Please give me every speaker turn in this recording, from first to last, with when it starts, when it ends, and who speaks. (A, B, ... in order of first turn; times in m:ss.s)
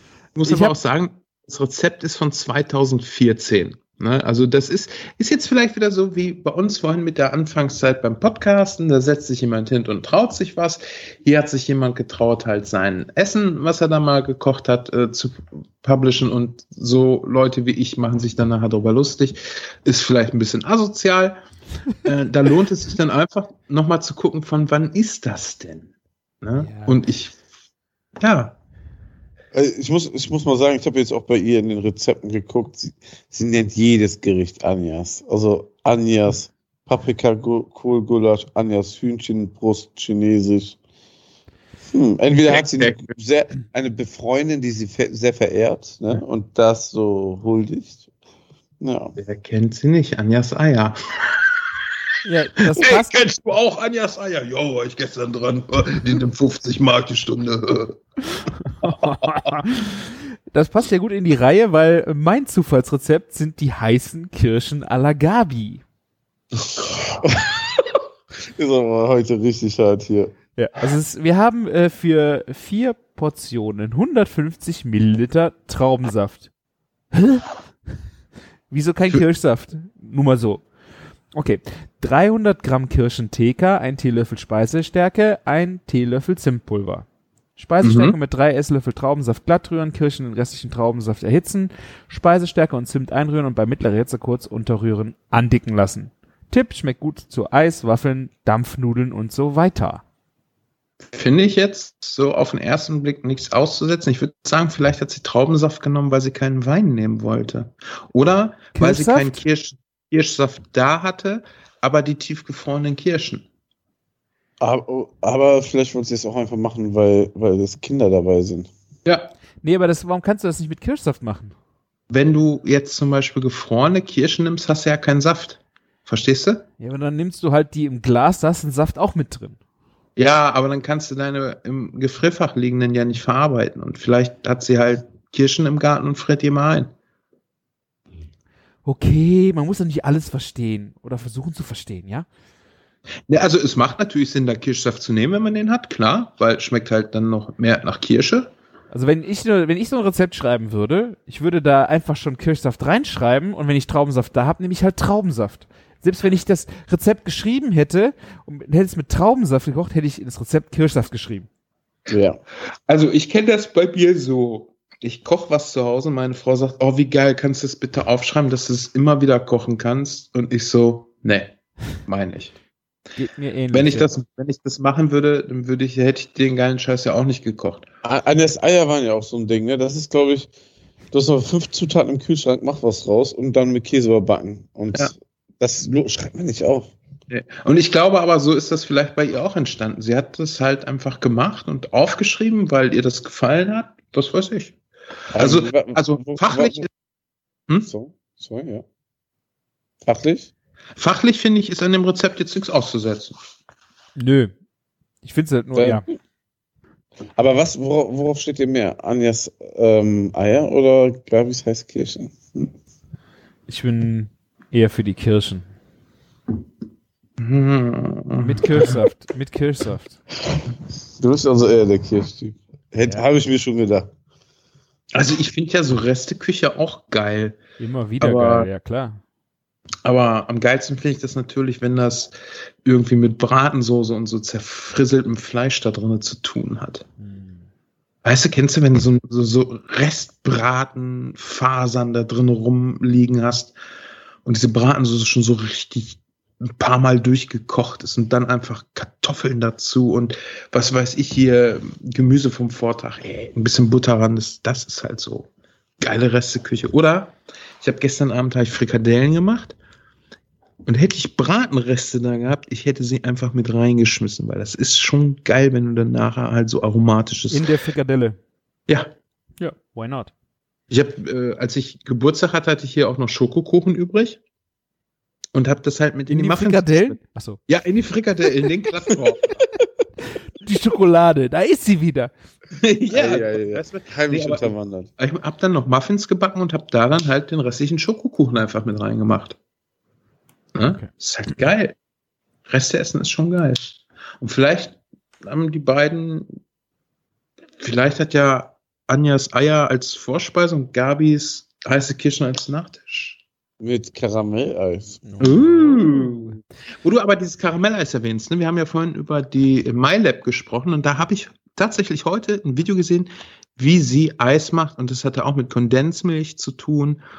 0:00.4-0:21.4 A
0:00.4-0:00.8 B
0:22.0-0:25.9 A
0:26.4-0:27.4 A
0:26.6-0:27.0 B
0:28.2-0:28.6 A
0:29.5-0:40.8 C
0:41.9-0:48.1 C
0:42.5-0:43.1 A
0:48.8-0:49.1 C
0:49.2-0:51.4 A
0:52.2-0:53.2 B
0:52.7-0:58.0 A
0:58.8-0:59.6 A
0:58.8-1:05.8 B
1:06.6-1:07.6 C
1:08.6-1:10.3 C
1:10.6-1:16.5 B
1:17.1-1:17.5 B
1:18.7-1:20.7 B
1:21.3-1:40.0 B
1:27.8-1:28.2 A
1:41.1-1:53.4 A
1:48.8-1:49.4 B
1:54.6-1:58.7 C
1:59.0-1:59.3 A
1:59.6-2:01.6 B
2:02.1-2:06.7 A
2:06.8-2:09.6 B
2:10.2-2:16.9 A
2:18.8-2:22.3 B
2:23.3-2:28.5 A
2:28.9-2:41.5 B
2:42.1-2:42.4 C
2:42.9-2:52.5 A
2:53.2-2:54.1 B
2:53.7-2:57.9 A
2:58.0-3:00.5 C
3:01.1-3:06.9 C
3:07.3-3:14.8 A
3:15.3-3:16.9 C
3:15.3-3:16.9 A
3:17.9-3:18.8 C
3:20.0-3:20.5 C
3:21.0-3:23.4 A
3:24.2-3:24.5 B
3:25.2-3:26.0 B
3:25.7-3:26.0 C
3:27.4-3:32.7 C
3:33.7-3:35.7 B
3:37.4-3:39.0 A
3:38.4-3:40.2 B
3:41.2-3:44.1 C
3:45.1-3:47.6 A
3:47.8-3:49.2 B
3:48.2-3:48.7 A
3:50.0-3:52.3 A
3:52.8-3:57.1 A
3:57.2-3:57.6 B
3:58.2-4:03.8 A
4:04.4-4:15.5 A
4:16.0-4:19.8 A
4:20.9-4:27.7 A
4:27.5-4:28.4 B
4:29.6-4:30.3 B
4:30.9-4:34.4 A
4:35.5-4:37.2 A
4:36.3-4:37.6 B
4:37.7-4:39.6 A
4:40.6-4:42.3 B
4:42.8-4:49.6 A
4:43.1-4:45.1 C
4:50.8-4:52.0 A
4:52.7-4:56.5 A
4:57.8-5:03.4 A
5:03.8-5:05.2 C
5:05.2-5:06.6 B
5:05.4-5:17.2 A